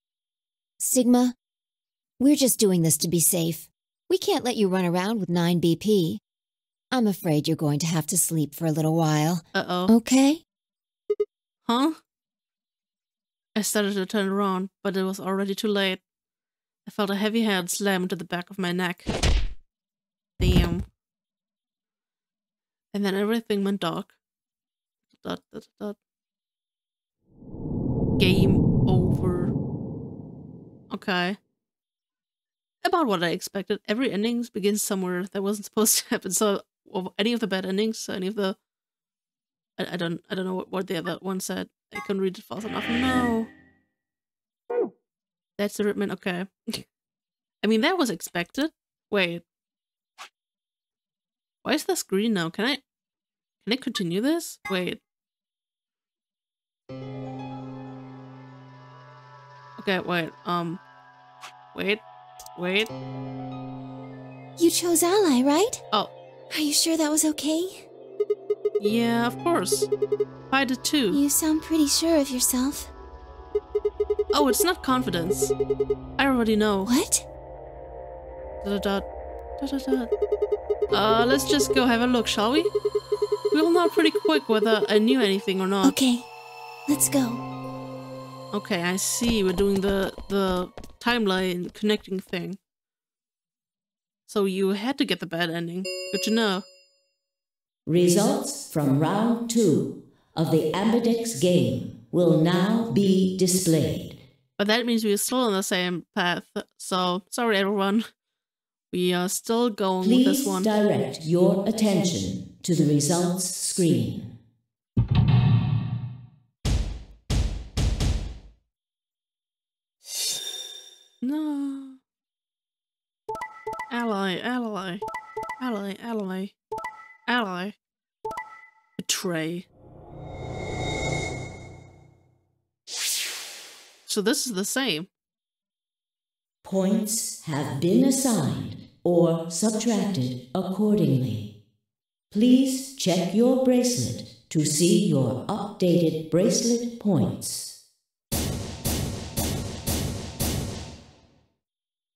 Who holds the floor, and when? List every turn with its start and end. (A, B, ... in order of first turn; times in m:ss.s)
0:00.8-0:01.4 A
0:02.2-0:06.2 A
0:06.9-0:10.4 A
0:09.5-0:09.9 B
0:11.6-0:12.0 B
0:13.6-0:16.0 B
0:16.8-0:19.1 B
0:20.4-0:20.9 B
0:22.9-0:24.1 B
0:25.1-0:26.0 B
0:28.2-0:29.5 B
0:30.9-0:31.4 B
0:32.8-0:38.6 B
0:39.8-0:43.5 B
0:45.6-0:46.8 B
0:47.6-0:49.4 B
0:51.6-0:52.8 B
0:53.6-0:55.0 B
0:59.8-1:00.8 B
1:01.7-1:02.0 B
1:02.6-1:02.9 B
1:04.6-1:05.8 C
1:06.5-1:07.8 C
1:08.8-1:09.9 B
1:10.5-1:11.2 B
1:11.1-1:12.9 C
1:14.3-1:15.5 B
1:16.2-1:16.9 B
1:16.8-1:17.2 C
1:18.6-1:19.0 B
1:19.6-1:20.1 B
1:20.9-1:22.7 B
1:23.5-1:26.0 B
1:25.8-1:26.3 C
1:26.9-1:27.4 C
1:28.5-1:32.6 B
1:34.3-1:36.6 B
1:37.8-1:44.2 D
1:44.6-1:48.1 B
1:48.9-1:50.7 B
1:50.0-1:54.3 D
2:01.2-2:02.0 B
2:03.9-2:05.0 B
2:05.6-2:06.5 B
2:07.3-2:07.7 B
2:09.0-2:09.6 B
2:14.1-2:15.1 B
2:16.6-2:21.5 D
2:22.3-2:27.8 D